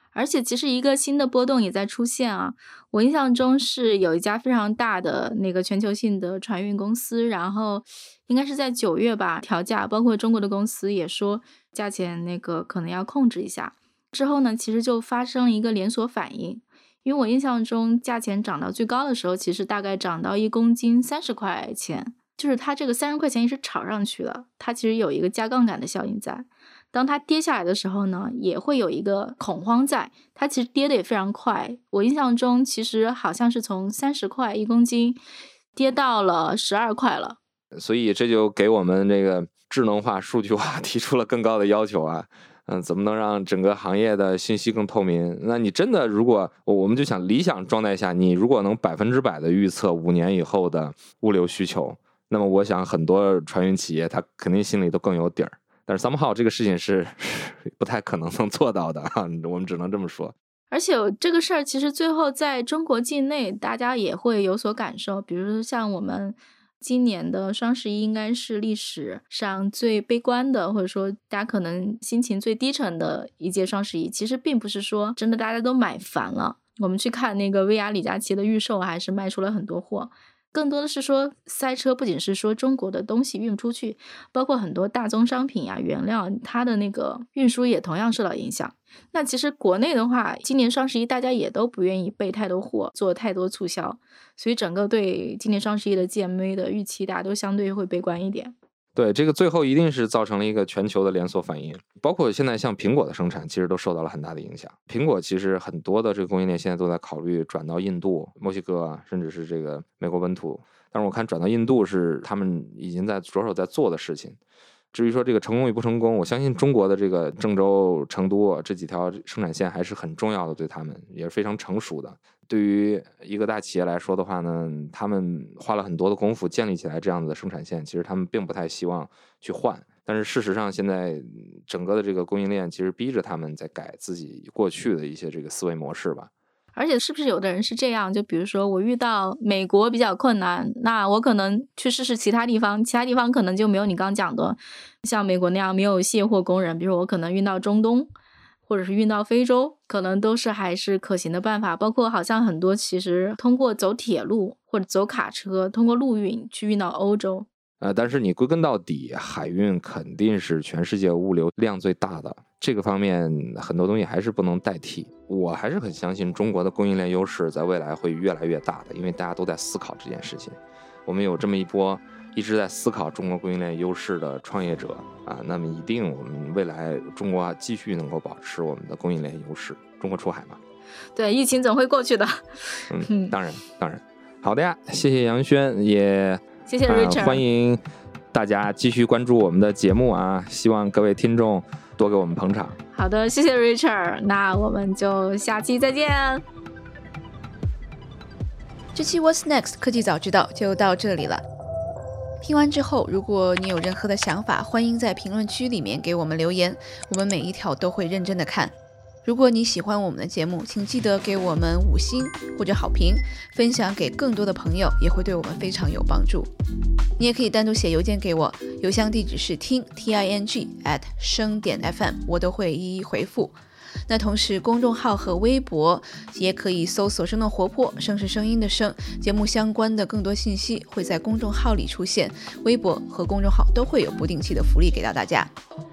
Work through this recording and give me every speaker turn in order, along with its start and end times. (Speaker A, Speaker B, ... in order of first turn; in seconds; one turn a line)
Speaker A: 0.1-35.2
Speaker A: 35.7-37.4
Speaker B: 37.7-60.3
Speaker A: 60.7-98.5
Speaker B: 99.0-114.4
Speaker B: 114.9-136.3
Speaker A: 136.7-148.1
Speaker A: 148.7-157.5
Speaker B: 157.8-180.6
Speaker A: 181.1-183.3
Speaker B: 182.9-187.8
Speaker A: 186.7-187.4
Speaker B: 188.3-192.8
Speaker A: 192.9-196.4
Speaker C: 198.9-201.4
Speaker C: 202.4-216.5
Speaker C: 217.2-223.5
Speaker C: 224.1-235.5